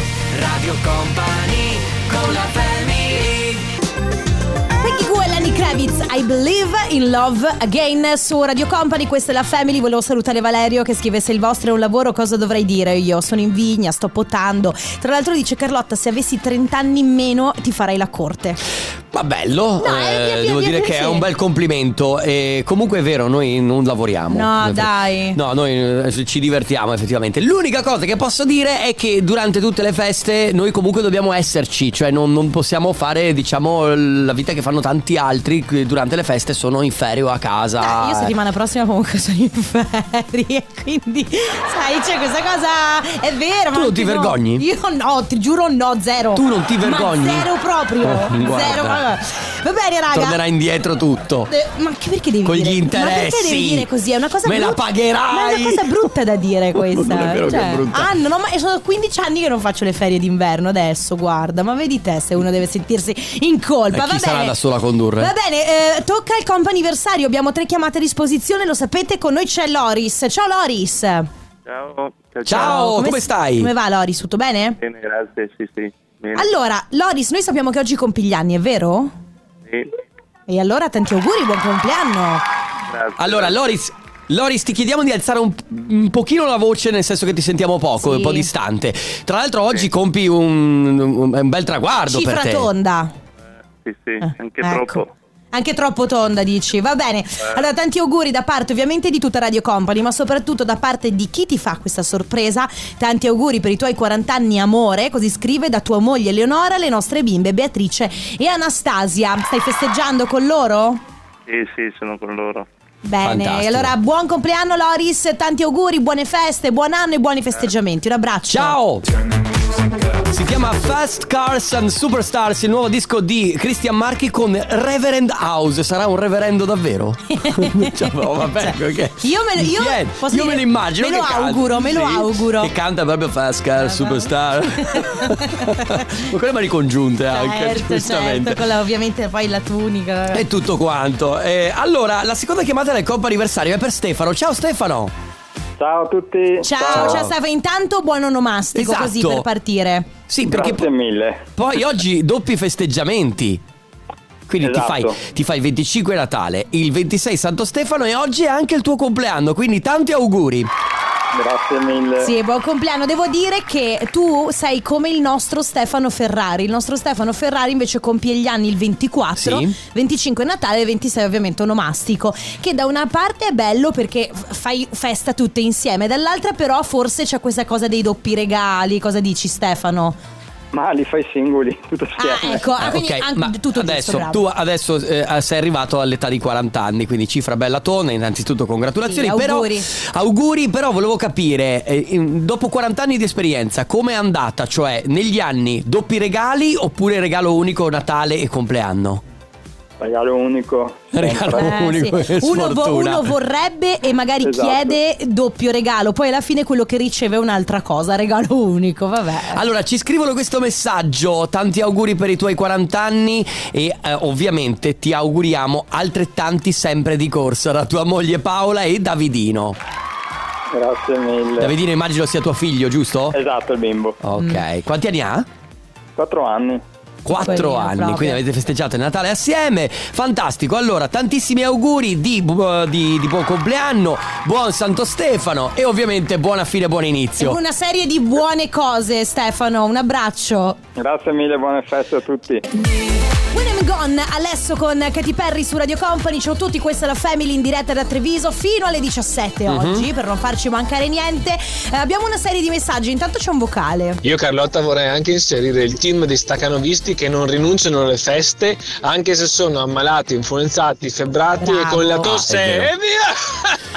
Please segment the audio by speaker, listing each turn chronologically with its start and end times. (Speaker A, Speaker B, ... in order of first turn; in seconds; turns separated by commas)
Speaker A: 0.3-3.6, Speaker B: 4.8-18.6, Speaker C: 19.1-38.3, Speaker B: 19.8-21.3, Speaker B: 24.3-25.4, Speaker B: 37.8-50.4, Speaker C: 43.7-44.6, Speaker C: 46.3-47.5, Speaker C: 48.0-49.0, Speaker C: 50.1-51.5, Speaker B: 51.5-64.5, Speaker C: 52.4-53.9, Speaker C: 54.4-55.9, Speaker C: 56.7-58.1, Speaker C: 63.9-65.3, Speaker B: 65.2-71.3, Speaker A: 71.7-72.8, Speaker C: 72.5-73.7, Speaker B: 72.5-74.8, Speaker A: 74.8-76.5, Speaker B: 76.3-79.1, Speaker B: 80.5-82.4, Speaker A: 82.9-83.5, Speaker C: 83.2-92.7, Speaker B: 88.0-88.5, Speaker B: 92.1-93.1, Speaker A: 93.8-95.1, Speaker B: 94.2-111.0, Speaker A: 111.5-112.7, Speaker B: 113.0-118.8, Speaker C: 113.2-113.9, Speaker C: 118.5-119.1, Speaker C: 120.2-138.6, Speaker B: 127.3-132.7, Speaker B: 133.8-136.2, Speaker B: 137.3-140.4, Speaker C: 140.3-145.1, Speaker D: 145.8-147.3, Speaker B: 146.6-150.1, Speaker C: 146.9-147.3, Speaker C: 148.7-149.5, Speaker C: 150.3-150.9, Speaker D: 150.4-151.4, Speaker C: 151.6-153.6, Speaker C: 154.5-160.7, Speaker D: 154.6-155.2, Speaker D: 161.3-162.3, Speaker B: 162.2-180.2, Speaker C: 169.4-169.8, Speaker D: 180.7-182.7, Speaker B: 182.2-184.4, Speaker C: 182.8-199.2, Speaker B: 189.0-189.9, Speaker D: 200.0-201.7, Speaker C: 201.1-203.3, Speaker B: 201.5-209.6, Speaker D: 204.4-204.9, Speaker C: 209.5-219.8, Speaker D: 220.7-221.7, Speaker C: 221.6-223.3, Speaker D: 223.3-224.2, Speaker C: 224.2-225.5, Speaker D: 226.2-226.8, Speaker C: 227.2-237.6, Speaker B: 227.3-228.4, Speaker B: 237.4-240.8, Speaker D: 241.0-242.6, Speaker B: 242.8-254.2, Speaker C: 249.7-250.1, Speaker E: 254.2-263.8, Speaker B: 261.6-262.3, Speaker C: 262.2-262.9